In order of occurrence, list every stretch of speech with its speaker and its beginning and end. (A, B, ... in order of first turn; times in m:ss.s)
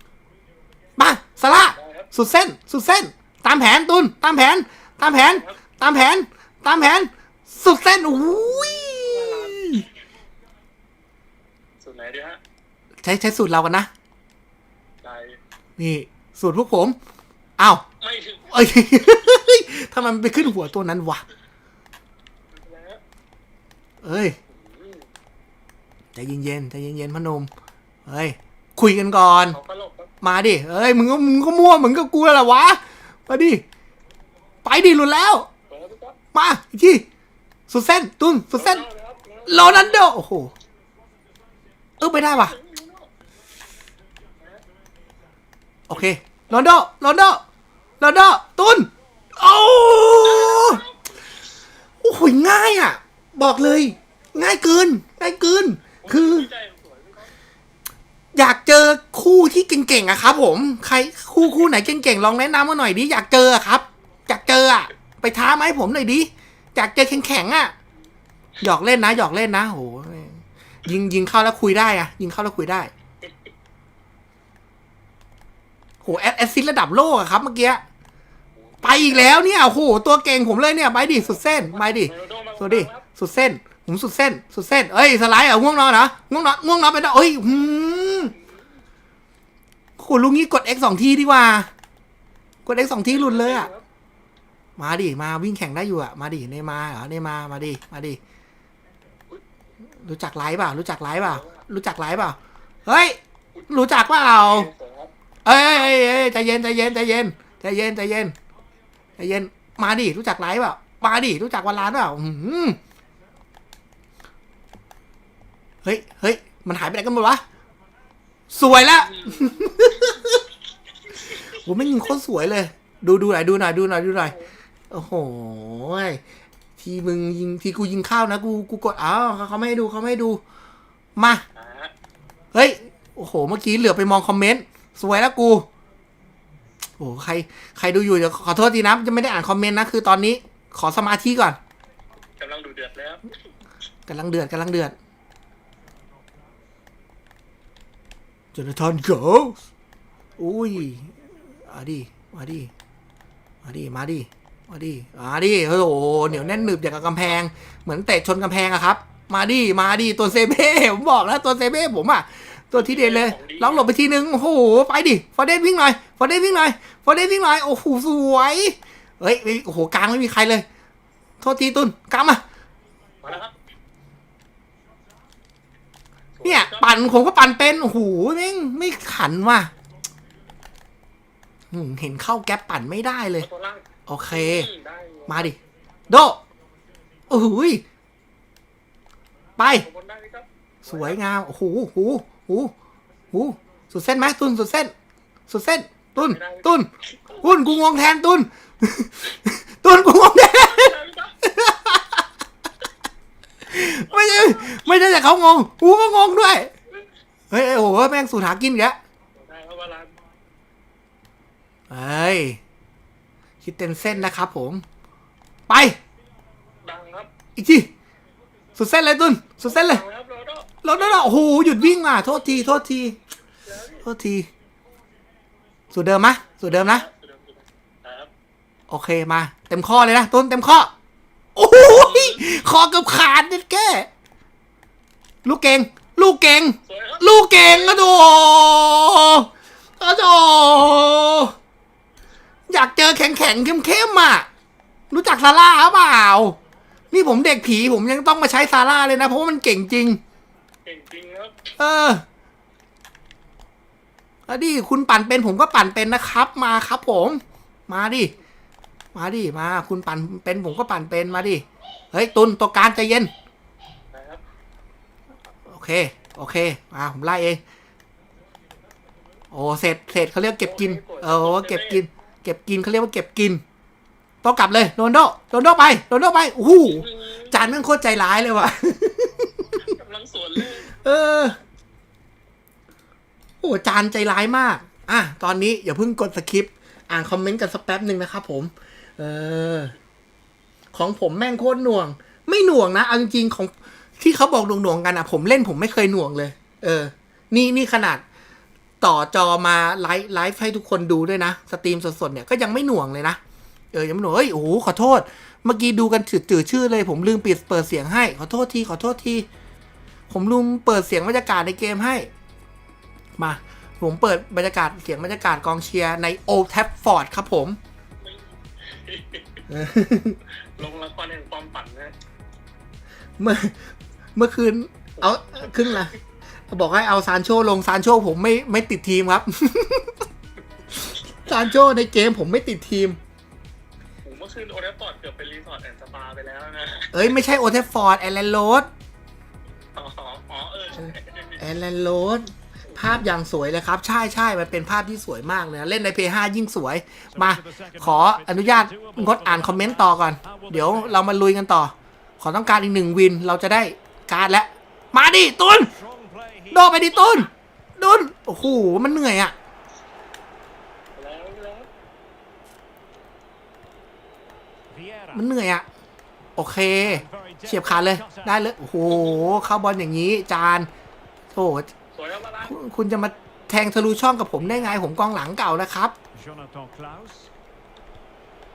0:01.0-0:09.9 A
0:01.6-0:02.1 B
0:05.0-0:05.6 B
0:08.9-0:09.8 B
0:11.8-0:12.4 B
0:13.0-0:13.9 A
0:15.0-0:15.4 B
0:15.8-0:17.0 A
0:17.6-0:17.8 A
0:18.0-0:18.7 B
0:18.5-0:21.2 A
0:22.5-0:23.0 B
0:24.0-0:24.4 A
0:24.5-0:25.1 B
0:26.1-0:27.5 A
0:28.1-0:29.6 A
0:29.5-0:30.1 B
0:30.2-0:33.6 A
0:34.6-0:35.5 A
0:35.7-0:36.2 B
0:36.3-0:37.0 A
0:37.7-0:38.9 A
0:38.5-0:40.1 B
0:39.5-0:40.5 A
0:42.0-0:42.6 A
0:42.2-0:43.1 B
0:45.9-0:47.4 A
0:48.0-0:50.8 A
0:50.2-0:51.0 B
0:52.0-0:56.5 A
0:56.0-0:57.3 B
0:58.4-1:07.7 A
1:08.6-1:12.9 A
1:16.0-1:17.8 A
1:18.7-1:19.4 B
1:18.8-1:28.4 A
1:21.2-1:23.0 B
1:30.0-1:31.7 A
1:32.7-1:33.7 A
1:33.1-1:33.8 B
1:34.8-1:38.2 A
1:40.0-1:43.2 A
1:41.2-1:41.6 B
1:43.6-1:45.1 B
1:43.7-1:44.7 A
1:45.4-1:48.3 A
1:49.2-1:52.8 A
1:55.8-1:57.4 A
1:58.5-2:00.4 A
1:58.8-2:00.2 B
2:01.3-2:04.4 A
2:04.1-2:04.5 B
2:04.9-2:06.2 A
2:06.8-2:10.4 A
2:11.2-2:11.4 A
2:11.6-2:11.9 B
2:12.5-2:15.7 A
2:17.0-2:21.6 A
2:22.4-2:23.3 B
2:24.1-2:25.0 A
2:28.5-2:29.6 A
2:30.4-2:31.2 A
2:31.7-2:32.7 A
2:33.6-2:50.6 A
2:42.7-2:43.9 B
2:51.4-2:52.4 A
2:53.2-2:53.5 B
2:56.4-2:57.2 B
2:56.4-2:59.7 A
3:01.7-3:03.5 A
3:03.4-3:05.5 B
3:04.1-3:04.7 A
3:05.3-3:05.6 A
3:06.1-3:06.4 A
3:07.3-3:07.8 A
3:09.6-3:09.9 A
3:09.7-3:11.2 B
3:10.9-3:12.7 A
3:13.3-3:14.9 A
3:15.5-3:16.9 A
3:16.2-3:17.5 B
3:17.4-3:22.2 A
3:20.4-3:21.4 B
3:23.7-3:26.7 A
3:24.2-3:24.8 B
3:27.5-3:29.0 A
3:29.4-3:30.1 B
3:31.9-3:32.6 A
3:33.6-3:34.8 A
3:35.7-3:36.0 A
3:36.8-3:37.3 B
3:37.6-3:37.9 A
3:38.8-3:40.0 A
3:39.6-3:41.3 B
3:40.8-3:43.2 A
3:43.7-3:44.0 B
3:44.0-3:44.5 A
3:45.9-3:47.0 A
3:46.6-3:48.3 B
3:48.9-3:50.9 A
3:51.6-3:54.1 A
3:51.8-3:52.4 B
3:55.4-4:01.5 A
3:56.9-3:58.2 B
4:02.7-4:04.5 A
4:05.1-4:06.6 A
4:07.1-4:10.2 A
4:10.8-4:11.7 B
4:11.8-4:12.2 A
4:14.5-4:18.3 A
4:19.2-4:23.3 A
4:24.1-4:24.4 B
4:25.7-4:27.6 A
4:29.5-4:33.6 A
4:30.6-4:32.0 B
4:34.4-4:39.6 A
4:36.8-4:37.7 B
4:39.8-4:41.0 B
4:40.9-4:41.6 A
4:43.6-4:49.9 A
4:50.9-4:58.2 A
4:59.0-5:03.4 A
5:03.9-5:09.5 A
5:10.3-5:12.3 A
5:13.4-5:17.8 A
5:18.2-5:19.6 B
5:19.7-5:20.4 A
5:20.8-5:22.1 B
5:23.4-5:23.8 A
5:24.4-5:26.1 A
5:25.2-5:26.1 B
5:26.7-5:30.1 A
5:31.0-5:33.2 A
5:34.2-5:37.4 B
5:37.1-5:38.9 A
5:40.0-5:41.6 B
5:41.0-5:55.9 A
5:42.9-5:43.2 B
5:47.4-5:51.1 C
5:56.0-5:56.7 C
5:56.7-5:59.5 A
6:01.2-6:01.9 B
6:05.3-6:05.9 A
6:06.6-6:10.9 A
6:07.3-6:08.4 C
6:11.5-6:11.9 A
6:12.1-6:12.7 B
6:12.6-6:16.2 A
6:16.5-6:17.5 C